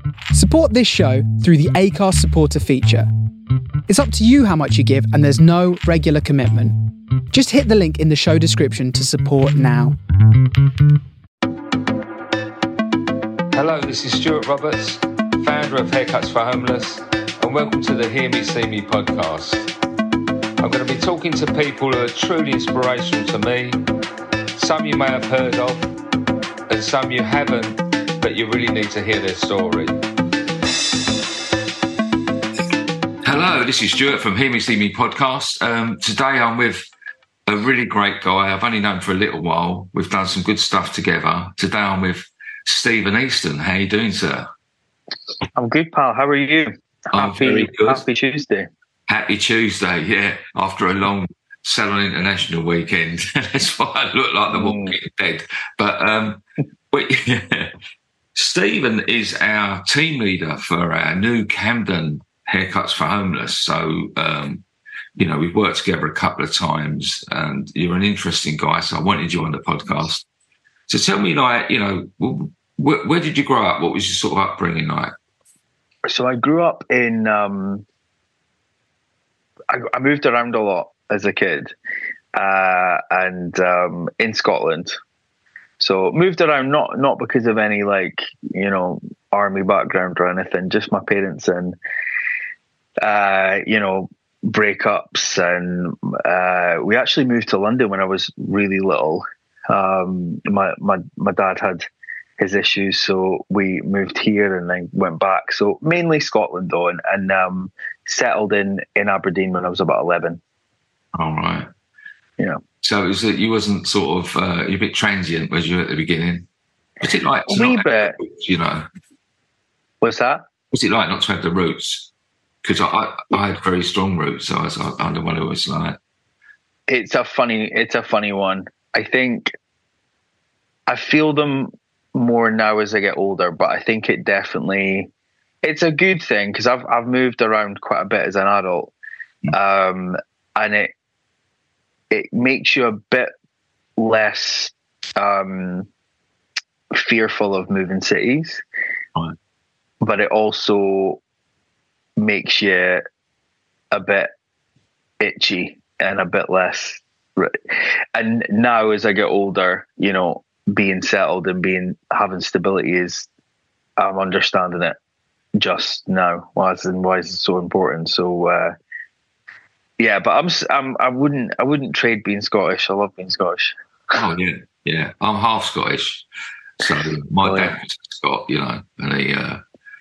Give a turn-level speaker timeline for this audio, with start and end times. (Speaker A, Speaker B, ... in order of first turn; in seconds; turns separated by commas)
Speaker A: 0.3-3.1, Speaker A: 3.9-6.7, Speaker A: 7.3-9.9, Speaker B: 13.5-19.7, Speaker B: 20.6-23.8, Speaker B: 24.6-25.9, Speaker B: 26.7-30.0, Speaker B: 33.2-36.9, Speaker B: 37.5-44.5, Speaker C: 45.5-48.7, Speaker B: 47.1-48.0, Speaker B: 49.1-57.7, Speaker C: 54.5-55.0, Speaker B: 58.3-64.6, Speaker B: 65.2-70.2, Speaker B: 70.9-75.1, Speaker C: 76.1-77.8, Speaker C: 79.7-81.7, Speaker C: 82.3-85.0, Speaker C: 85.8-91.8, Speaker C: 93.0-101.9, Speaker C: 102.4-110.4, Speaker B: 111.1-111.7, Speaker B: 112.8-116.5, Speaker B: 117.0-118.8, Speaker C: 117.5-118.2, Speaker C: 120.0-120.4, Speaker B: 120.7-122.1, Speaker B: 122.6-126.0, Speaker C: 126.9-129.5, Speaker C: 130.9-135.1, Speaker C: 135.6-138.9, Speaker C: 139.5-140.9, Speaker C: 142.1-143.3, Speaker C: 144.0-145.9, Speaker C: 146.9-148.6, Speaker C: 150.0-151.2, Speaker C: 152.2-153.0, Speaker C: 153.9-154.3, Speaker C: 155.2-163.3, Speaker C: 164.0-164.9, Speaker C: 165.6-168.7, Speaker C: 170.0-173.7, Speaker B: 174.1-176.2, Speaker B: 176.8-179.6, Speaker C: 177.4-177.7